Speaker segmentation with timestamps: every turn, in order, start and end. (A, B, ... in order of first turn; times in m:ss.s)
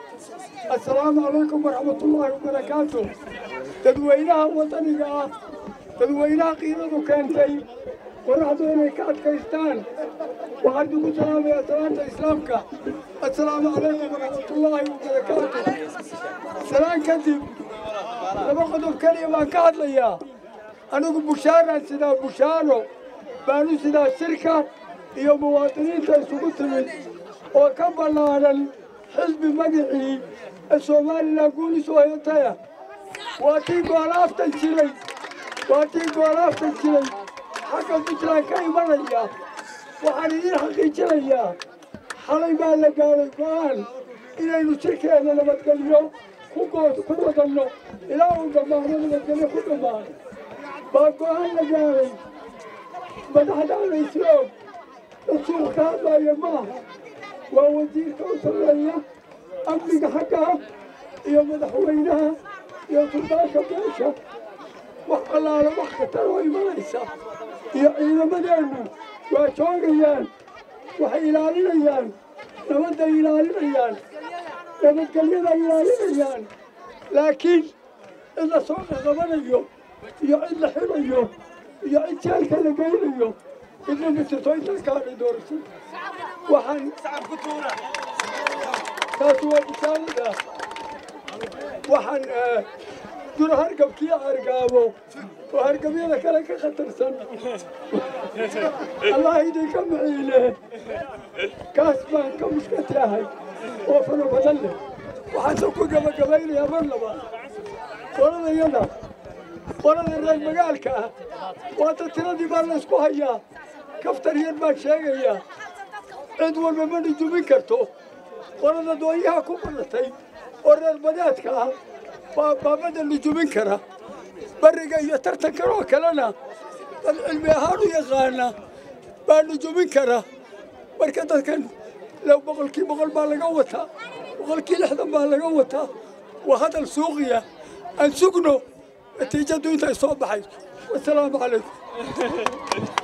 0:00.7-0:03.2 A
0:03.8-0:05.3 A
0:06.0-0:07.7 A
0:08.2-0:09.8 A
0:10.6-0:12.6 A
0:13.2-0:15.8 A
0:16.6-0:17.6 A
0:18.3-0:20.2 A
0:20.9-0:22.9 A
0:23.4-0:26.9 A
0:27.5-0:32.6 A
0:33.4-0:35.0 A
0:35.6-0:39.3 A
0:40.0-0:41.6 A
0:42.1-0:50.1 A
0:50.9-0:52.2 A
0:53.3-0:54.5 A
0:55.2-0:56.8 A
0:57.5-0:59.0 A
0:59.6-1:00.6 A
1:01.2-1:04.2 A
1:05.0-1:07.1 A
1:07.7-1:10.3 A
1:11.0-1:12.1 A
1:12.6-1:14.0 A
1:14.8-1:16.5 A
1:17.1-1:17.7 A
1:18.3-1:25.6 A
1:26.4-1:27.2 A
1:29.1-1:30.4 A
1:31.8-1:32.7 A
1:33.3-1:35.0 A
1:35.5-1:37.3 A
1:38.6-1:40.6 A
1:41.7-1:47.2 A
1:48.1-1:48.9 A
1:49.8-1:51.1 A
1:51.6-1:53.4 A
1:54.0-1:55.4 A
1:56.3-1:57.9 A
1:58.6-2:01.8 A
2:02.3-2:03.8 A
2:04.6-2:06.3 A
2:07.0-2:08.5 A
2:09.2-2:10.2 A
2:11.0-2:15.9 A
2:16.4-2:17.4 A
2:18.0-2:18.6 A
2:19.1-2:21.8 A